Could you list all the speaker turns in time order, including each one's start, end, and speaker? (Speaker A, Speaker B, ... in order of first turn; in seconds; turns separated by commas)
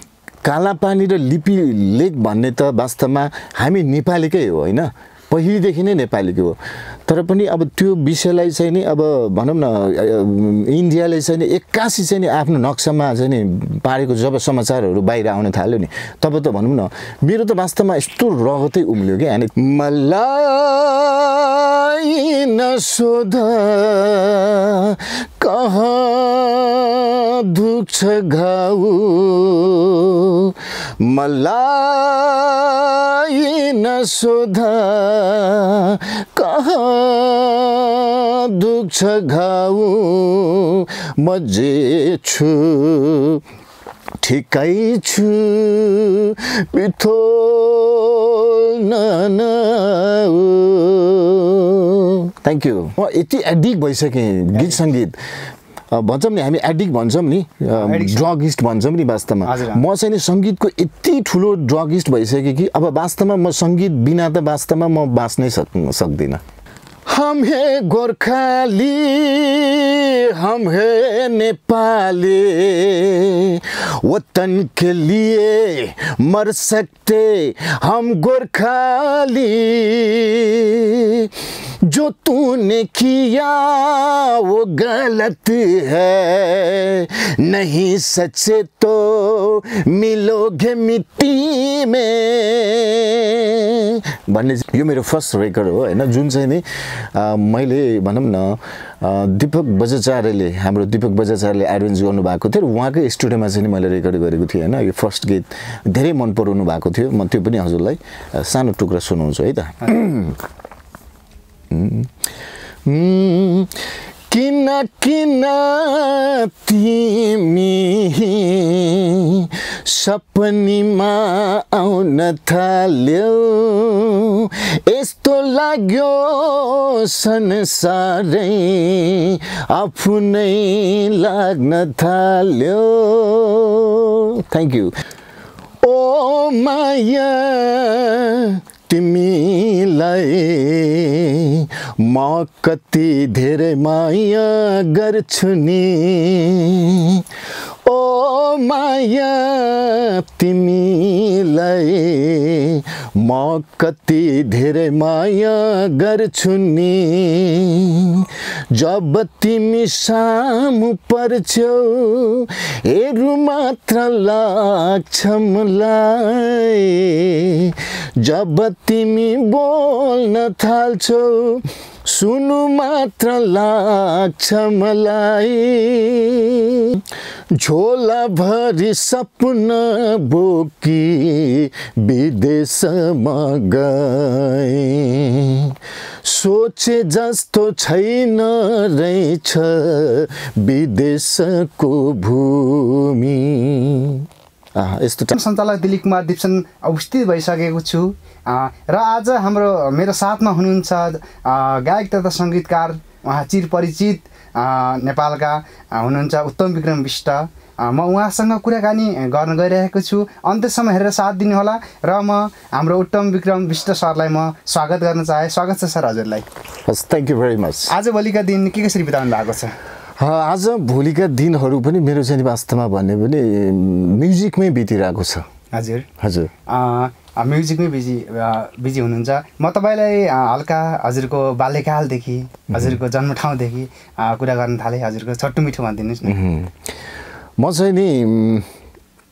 Speaker A: 0.4-43.4, Speaker A: 44.2-55.2, Speaker B: 54.5-54.8, Speaker A: 55.9-66.4, Speaker B: 57.7-58.2, Speaker B: 59.4-59.8, Speaker A: 67.1-81.3, Speaker A: 81.8-110.4, Speaker A: 111.7-112.1, Speaker A: 112.8-134.9, Speaker A: 135.8-147.2, Speaker A: 147.8-177.0, Speaker A: 177.6-195.3, Speaker B: 195.3-216.5, Speaker A: 216.9-217.9, Speaker B: 217.9-219.8, Speaker A: 220.2-225.5, Speaker B: 225.7-226.1, Speaker A: 226.2-226.5, Speaker B: 226.7-236.3, Speaker A: 232.7-233.0, Speaker A: 236.2-236.9, Speaker A: 237.6-238.7